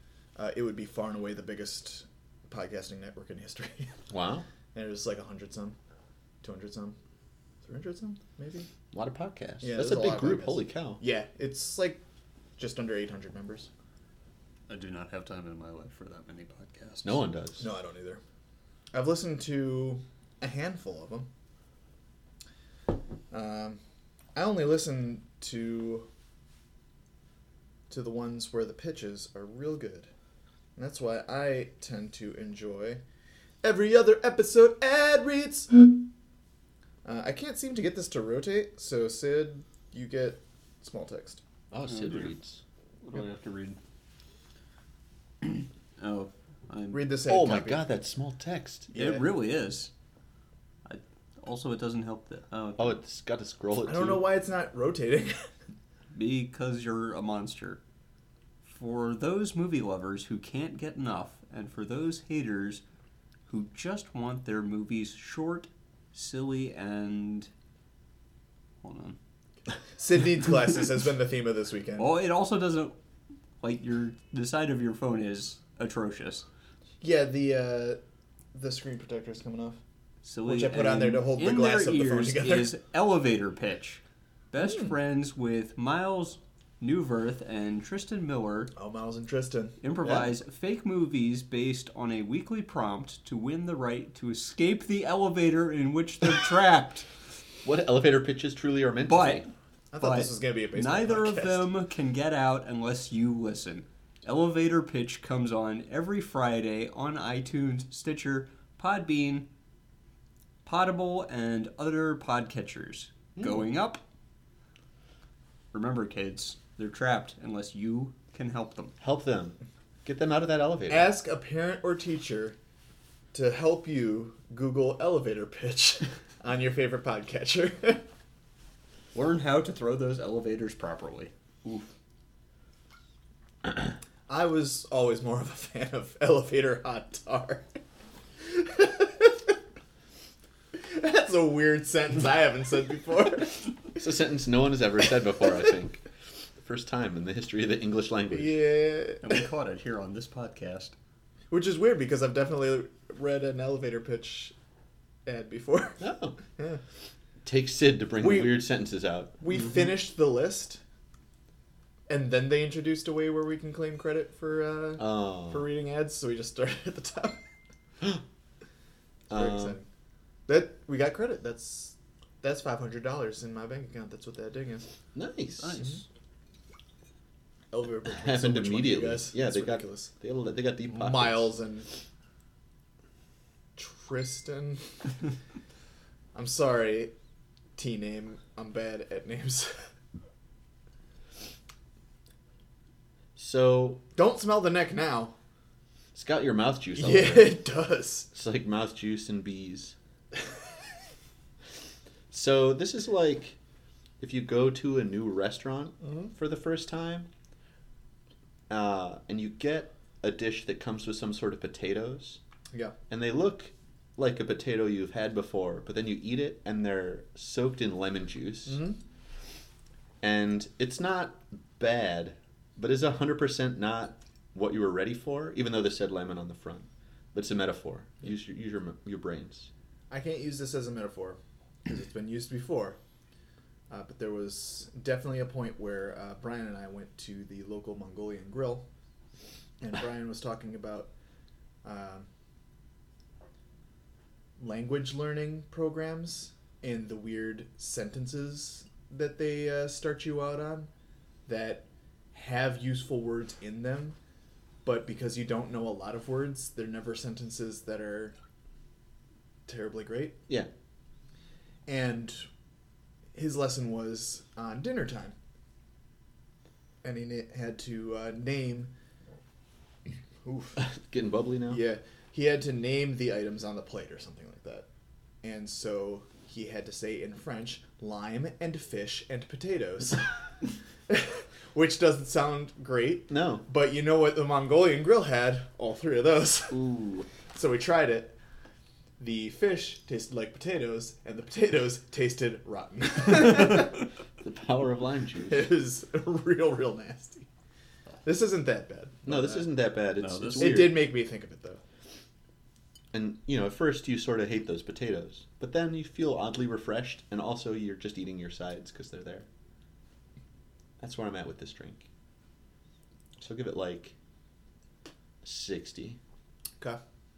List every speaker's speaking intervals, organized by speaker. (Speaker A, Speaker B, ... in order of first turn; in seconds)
Speaker A: 0.4-4.0, 4.7-5.8, 6.4-7.0, 7.6-8.7, 9.6-12.0, 12.6-13.7, 17.6-18.2, 18.9-21.3, 23.3-23.8, 24.4-26.1, 27.9-30.1, 30.8-33.0, 33.6-36.1, 37.0-41.4, 46.9-47.9, 48.9-49.3, 53.7-55.5, 70.0-72.2, 77.0-78.0, 78.5-79.8, 80.4-82.7, 88.7-89.8, 99.9-101.7, 120.9-122.6, 123.3-128.0, 134.3-137.8, 138.4-139.5, 140.7-144.0, 148.3-149.5, 151.5-154.5, 155.3-156.8, 158.2-158.6, 159.4-160.8, 162.1-167.4, 169.3-169.9, 170.5-174.9, 177.7-180.1, 180.8-181.9, 183.8-184.8, 186.3-187.1, 187.8-189.8, 194.2-195.3, 196.9-198.3, 206.0-206.3, 212.7-213.0, 218.7-219.0, 230.1-233.0, 233.9-238.9, 239.8-241.1, 241.8-242.3, 244.6-250.9, 251.5-254.2, 254.8-258.4, 259.7-260.4, 261.9-262.4, 263.4-265.4, 267.0-268.9, 270.4-270.8, 271.7-274.9, 275.4-280.3, 281.1-288.4, 289.2-294.0, 295.5-297.5, 298.2-299.7, 300.6-301.8
Speaker B: 4.1-4.5, 8.9-11.0, 17.0-17.7, 41.7-42.6, 47.3-48.9, 52.8-54.4, 90.0-90.3, 97.6-99.5, 119.0-121.1, 144.0-146.0, 146.6-148.6, 156.0-156.4, 157.4-159.4, 165.0-165.7, 169.3-169.8, 175.1-175.8, 178.1-181.6, 193.4-194.0, 196.1-197.6, 198.3-199.9, 202.3-203.6, 204.2-207.3, 208.7-212.4, 213.1-218.8, 220.2-229.7, 270.8-271.9, 283.3-283.6, 286.7-287.3, 294.4-295.7, 299.2-301.1, 303.1-309.5, 311.0-312.1, 313.4-314.1, 315.4-316.2
Speaker C: 14.7-17.3, 41.9-42.3, 43.0-43.8, 45.4-47.3, 48.9-49.9, 50.9-53.0, 56.1-57.8, 58.6-62.8, 63.5-67.5, 68.8-69.2, 72.0-73.0, 73.6-76.5, 80.2-88.7, 89.8-97.1, 99.0-109.5, 110.7-114.0, 115.7-119.0, 129.1-131.9, 149.2-150.9, 175.6-176.0, 300.2-301.0